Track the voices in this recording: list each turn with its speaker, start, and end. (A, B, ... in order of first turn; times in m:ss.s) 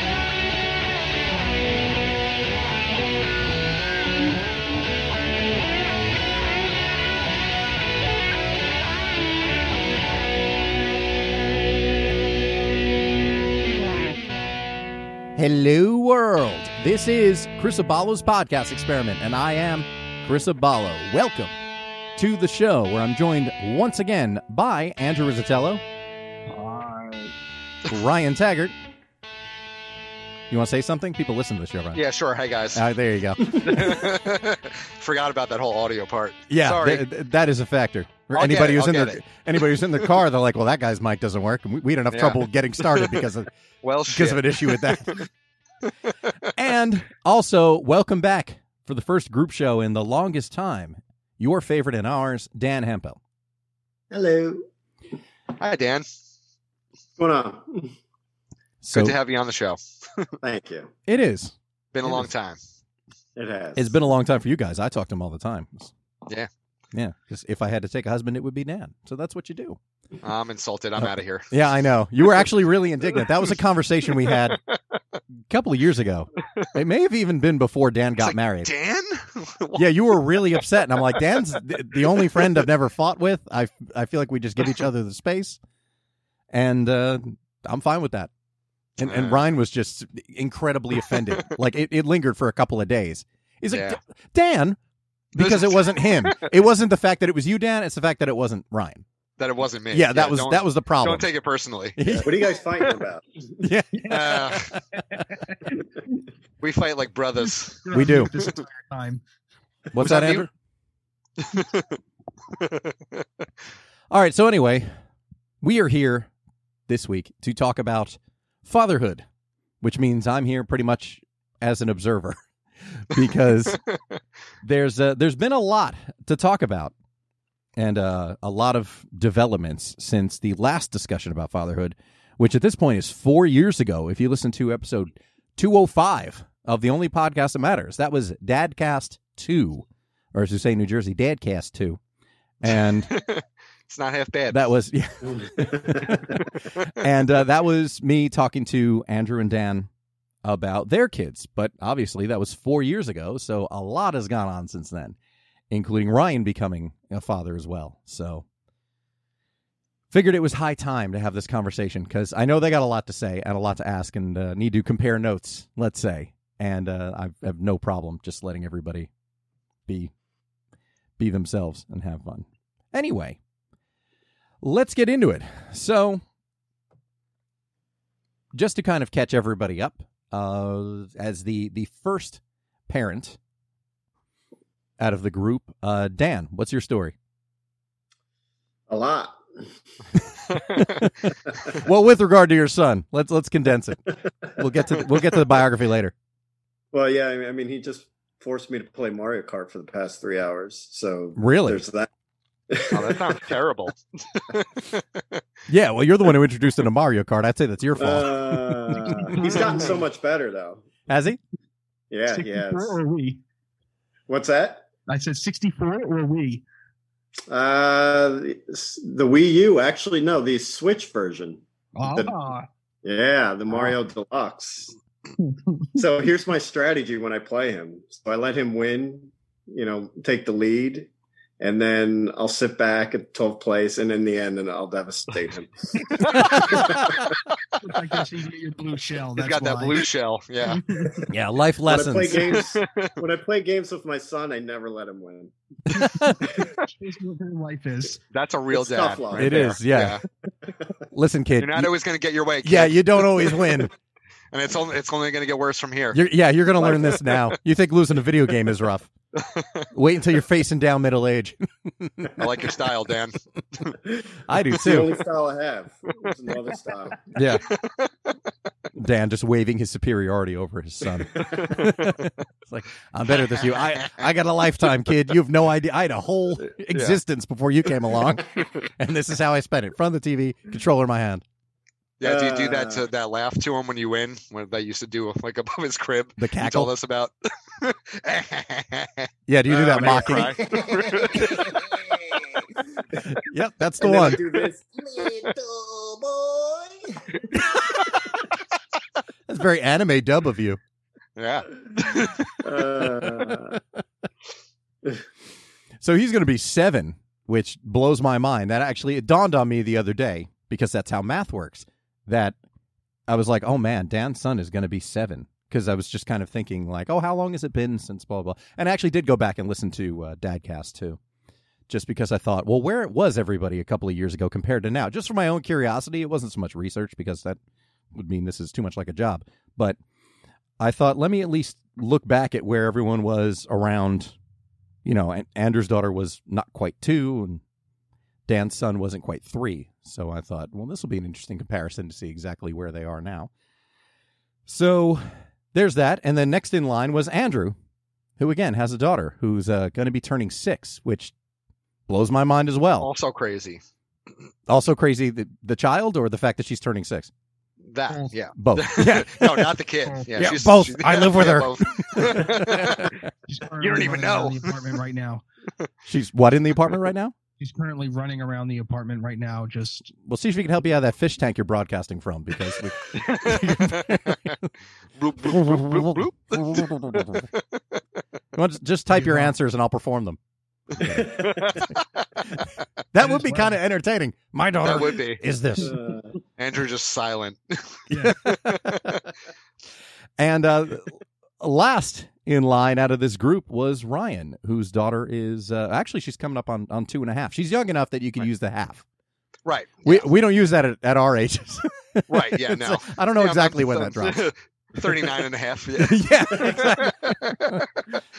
0:15.4-0:21.6 A
0:22.2-0:25.8 A
0:26.5-0:27.3 B
0:27.8-0:28.7 A
0:30.5-0:32.0 A
0:31.9-0:32.8 C
0:32.7-0:34.0 A
0:33.5-0:37.1 C
0:36.5-0:43.5 A
0:38.3-0:39.8 C
0:42.1-0:43.2 C
0:43.8-0:45.3 C
0:44.1-0:45.2 A
0:45.9-0:46.4 C
0:46.5-0:53.2 A
0:54.1-0:54.7 D
0:55.6-0:56.0 C
0:57.2-0:57.9 D
0:58.8-0:59.2 A
0:58.9-1:00.3 C
1:00.4-1:00.9 D
1:01.1-1:01.5 A
1:01.9-1:02.6 C
1:03.4-1:03.9 D
1:03.7-1:05.9 A
1:06.9-1:09.8 A
1:10.2-1:11.5 C
1:11.0-1:14.6 A
1:15.5-1:18.7 A
1:18.2-1:21.4 C
1:19.7-1:25.6 A
1:21.9-1:22.6 C
1:26.5-1:28.3 A
1:29.0-1:34.8 A
1:29.0-1:29.4 C
1:33.7-1:34.0 C
1:35.3-1:39.0 A
1:35.4-1:36.5 C
1:39.4-1:42.3 C
1:39.9-1:41.3 A
1:42.0-1:42.4 A
1:42.2-1:43.7 D
1:43.6-1:45.0 A
1:43.9-1:44.5 B
1:44.1-1:44.7 C
1:45.1-1:45.8 B
1:46.6-1:48.6 C
1:47.8-1:49.2 B
1:47.9-1:48.3 A
1:49.9-1:50.5 A
1:50.0-1:50.5 C
1:51.4-1:52.0 C
1:52.6-1:53.2 C
1:54.1-1:54.9 A
1:55.6-1:56.3 A
1:56.9-1:59.2 A
1:59.8-2:03.8 A
2:04.6-2:06.9 A
2:07.8-2:22.0 A
2:22.6-2:23.1 A
2:22.7-2:24.6 C
2:24.5-2:29.9 A
2:25.3-2:26.2 D
2:26.4-2:27.0 C
2:30.4-2:35.2 A
2:35.7-2:38.4 A
2:40.1-2:49.1 A
2:49.9-2:50.1 A
2:51.2-2:53.4 A
2:54.6-2:56.2 A
2:58.5-3:03.4 A
3:05.0-3:07.1 A
3:08.9-3:09.4 D
3:10.8-3:11.1 A
3:11.7-3:16.1 A
3:16.9-3:22.1 D
3:21.4-3:21.8 A
3:22.7-3:23.5 D
3:22.9-3:25.4 C
3:25.7-3:29.4 A
3:28.0-3:30.8 D
3:31.1-3:31.4 A
3:32.1-3:33.0 D
3:32.3-3:33.4 B
3:34.3-3:34.8 D
3:35.1-3:36.6 B
3:37.5-3:42.3 D
3:41.9-3:42.7 B
3:43.0-3:45.0 D
3:45.4-3:45.9 B
3:45.9-3:57.3 D
3:56.3-3:57.2 A
3:57.8-4:00.0 B
3:59.4-4:00.8 C
4:00.6-4:01.2 B
4:01.3-4:02.6 A
4:01.8-4:05.5 D
4:02.5-4:03.1 C
4:06.0-4:06.4 A
4:06.2-4:06.7 D
4:06.6-4:08.2 B
4:08.3-4:10.2 C
4:08.7-4:09.7 D
4:09.3-4:10.2 A
4:11.1-4:11.9 A
4:11.6-4:13.9 C
4:12.6-4:13.9 A
4:14.5-4:16.2 C
4:16.1-4:19.1 A
4:16.8-4:17.2 D
4:19.3-4:19.9 C
4:19.9-4:22.7 A
4:22.4-4:23.4 C
4:24.0-4:27.3 D
4:24.5-4:25.1 A
4:27.3-4:27.7 A
4:27.7-4:28.1 C
4:29.0-4:41.4 A
4:31.3-4:32.2 C
4:36.6-4:37.2 C
4:42.2-4:52.0 C
4:42.2-4:43.0 D
4:46.4-4:46.9 A
4:49.5-4:50.8 A
4:49.7-4:52.4 D
4:53.2-4:54.4 A
4:54.0-4:57.6 D
4:57.5-4:57.8 A
4:59.5-5:00.8 A
5:01.4-5:02.7 C
5:02.6-5:03.8 D
5:06.0-5:12.6 A
5:13.3-5:21.2 A
5:21.9-5:27.6 A
5:28.1-5:30.0 A
5:30.8-5:34.3 A
5:35.0-5:37.6 A
5:38.5-5:43.5 A
5:44.7-5:47.7 A
5:48.4-5:51.3 A
5:52.1-5:53.1 A
5:53.0-5:53.8 C
5:54.7-5:57.3 A
5:57.9-6:03.2 C
5:58.6-5:59.8 A
6:00.0-6:00.5 B
6:00.3-6:03.2 A
6:03.5-6:05.4 B
6:03.8-6:04.8 C
6:06.0-6:07.3 A
6:07.6-6:10.1 B
6:10.2-6:14.6 A
6:13.1-6:14.6 C
6:15.2-6:18.0 C
6:15.4-6:17.4 A
6:18.5-6:20.4 A
6:19.1-6:19.5 B
6:21.0-6:21.3 A
6:21.0-6:21.8 D
6:21.3-6:22.4 C
6:23.1-6:26.0 A
6:23.2-6:23.8 B
6:24.8-6:25.4 C
6:25.8-6:26.3 D
6:26.6-6:29.1 C
6:28.1-6:28.4 B
6:28.2-6:29.2 A
6:30.4-6:39.0 A
6:39.6-6:40.3 C
6:40.0-6:44.5 A
6:42.3-6:47.8 C
6:45.0-6:45.3 A
6:46.0-6:47.9 A